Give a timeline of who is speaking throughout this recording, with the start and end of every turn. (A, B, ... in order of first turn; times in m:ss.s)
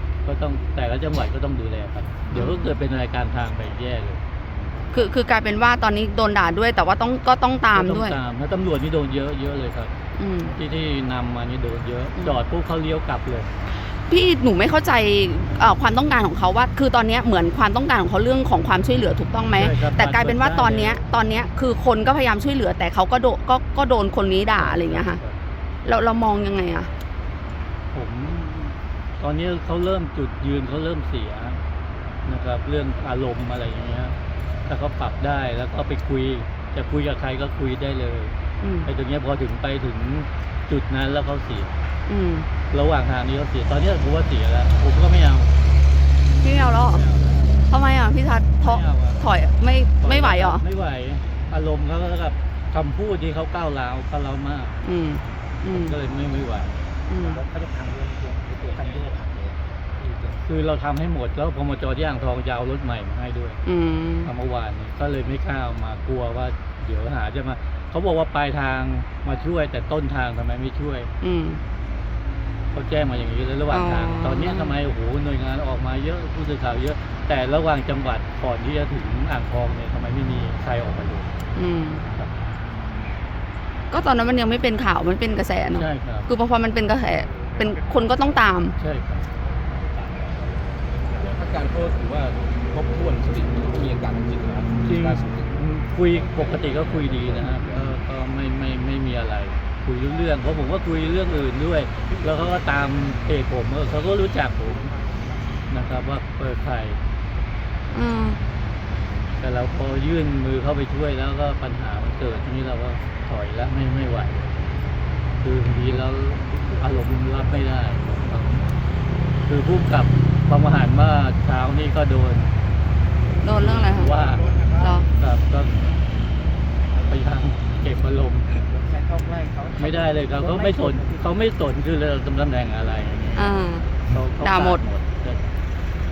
0:00.2-0:04.2 A
0:02.3-0:02.7 B
0:04.9-0:08.2 B
0:07.7-0:09.9 A
0:10.2-0:10.6 B
0:10.5-0:13.5 A
0:14.1-0:25.2 B
0:19.6-0:21.0 A
0:24.5-0:25.4 A
0:25.8-0:26.9 B
0:27.9-0:31.6 A
0:32.3-0:34.2 A
0:34.7-0:38.3 A
0:38.6-0:38.9 B
0:38.8-0:41.8 A
0:42.1-0:42.5 B
0:42.7-0:45.5 A
0:46.4-0:47.1 B
0:46.7-0:47.7 A
0:47.7-0:50.6 B
0:48.6-0:49.2 A
0:50.0-0:54.8 A
0:54.8-0:56.0 B
0:55.7-0:56.8 A
0:57.1-0:57.4 B
0:57.5-0:58.7 C
0:59.2-0:59.5 C
1:00.4-1:03.6 A
1:03.6-1:04.3 B
1:04.2-1:11.1 A
1:11.2-1:11.6 B
1:12.7-1:21.3 A
1:13.7-1:14.8 B
1:21.6-1:22.0 B
1:23.9-1:28.8 B
1:25.7-1:26.3 A
1:27.3-1:28.1 D
1:28.8-1:29.3 A
1:31.2-1:35.6 D
1:34.8-1:45.0 A
1:36.3-1:37.9 D
1:45.7-1:47.0 A
1:47.9-1:48.4 B
1:49.4-1:54.5 A
1:55.4-1:58.7 A
1:59.5-2:02.5 A
2:03.4-2:05.1 B
2:03.6-2:04.5 A
2:04.3-2:04.7 D
2:05.2-2:05.8 A
2:07.0-2:08.6 A
2:09.8-2:13.6 A
2:10.4-2:11.2 C
2:13.4-2:14.8 B
2:14.1-2:15.4 A